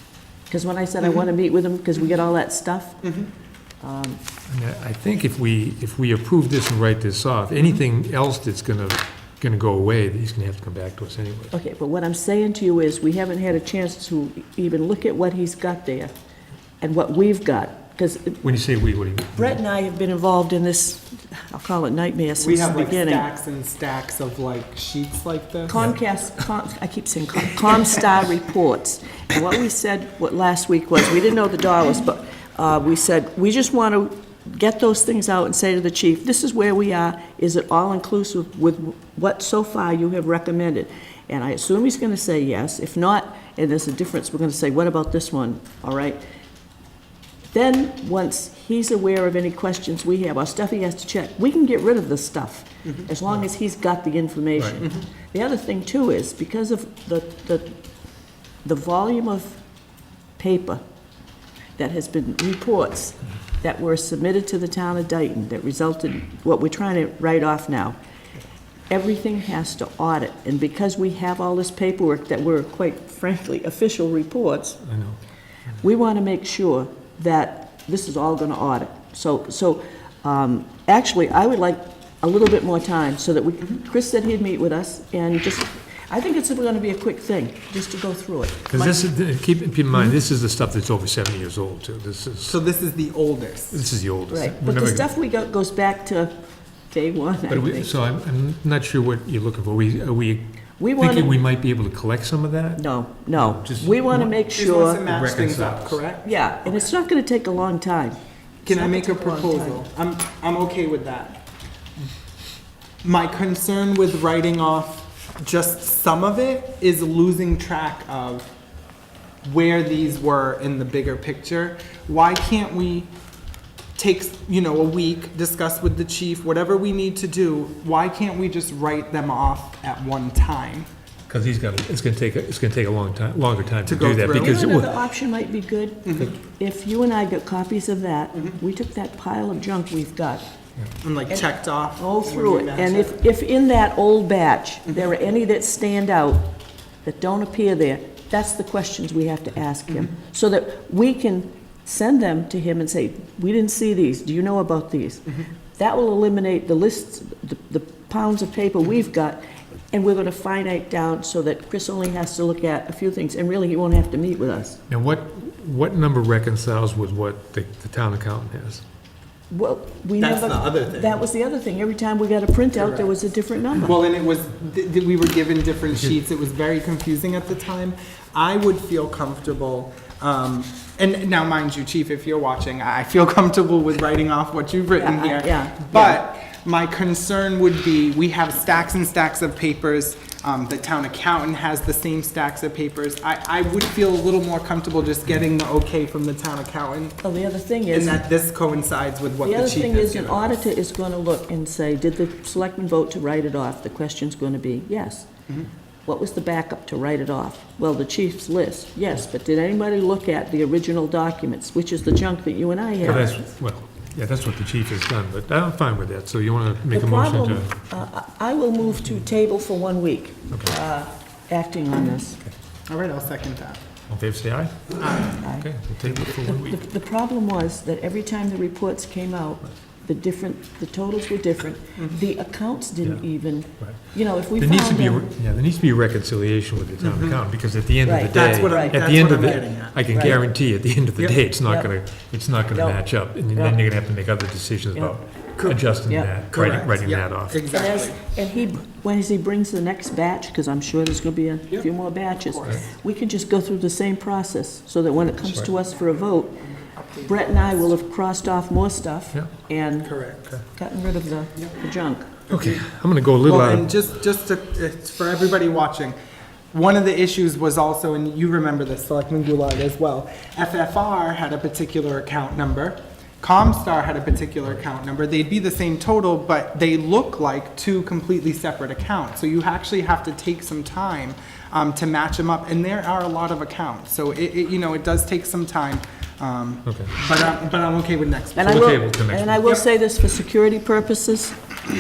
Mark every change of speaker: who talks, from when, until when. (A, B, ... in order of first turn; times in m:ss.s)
0:00.5-0:03.0 A
0:03.0-0:03.3 B
0:03.8-0:04.2 A
0:04.5-0:11.5 C
0:11.5-0:16.1 A
0:16.8-0:18.4 A
0:18.4-0:19.6 C
0:19.4-0:23.3 A
0:22.4-0:25.8 B
0:25.7-0:46.2 A
0:47.5-0:57.8 A
0:54.6-0:54.8 C
0:58.6-0:59.6 A
1:00.4-1:00.8 A
1:01.8-1:08.0 A
1:08.9-1:14.8 A
1:14.8-1:15.2 C
1:15.8-1:29.0 A
1:28.7-1:32.6 C
1:32.4-1:33.9 B
1:33.7-1:35.1 C
1:34.3-1:36.4 A
1:36.9-1:38.0 A
1:37.5-1:40.4 C
1:40.8-1:41.4 A
1:41.0-1:44.4 C
1:42.8-1:45.0 A
1:44.5-1:46.9 B
1:45.0-1:46.0 C
1:46.2-1:49.8 A
1:48.6-1:51.4 B
1:53.0-1:58.5 B
1:59.4-2:03.1 B
2:04.0-2:10.9 B
2:11.3-2:15.0 C
2:13.8-2:14.8 B
2:14.4-2:20.5 A
2:16.1-2:16.3 B
2:21.0-2:23.2 B
2:22.0-2:26.5 A
2:27.0-2:44.8 A
2:44.9-2:48.8 C
2:49.5-2:54.0 A
2:50.2-2:51.2 B
2:52.8-2:53.1 B
2:53.8-3:17.2 B
3:05.0-3:06.2 A
3:17.2-3:18.2 A
3:17.9-3:20.6 B
3:19.4-3:25.3 A
3:26.1-3:33.4 A
3:33.0-3:37.7 C
3:36.9-3:42.4 A
3:42.9-3:43.8 B
3:44.1-3:46.8 C
3:45.0-3:45.4 B
3:45.4-3:45.7 A
3:46.2-3:55.3 A
3:53.8-4:07.6 C
3:57.0-3:57.4 B
3:58.0-3:59.0 A
3:58.3-4:00.5 B
4:00.1-4:00.4 A
4:02.7-4:03.0 A
4:06.5-4:08.2 B
4:07.7-4:16.6 A
4:12.5-4:12.8 B
4:17.1-4:17.9 B
4:17.2-4:20.1 A
4:20.0-4:20.5 B
4:20.7-4:22.3 A
4:22.5-4:22.9 B
4:22.5-4:23.9 C
4:23.4-4:26.2 B
4:26.7-4:49.1 B
4:46.8-4:47.1 C
4:48.6-4:51.6 A
4:48.7-4:49.7 C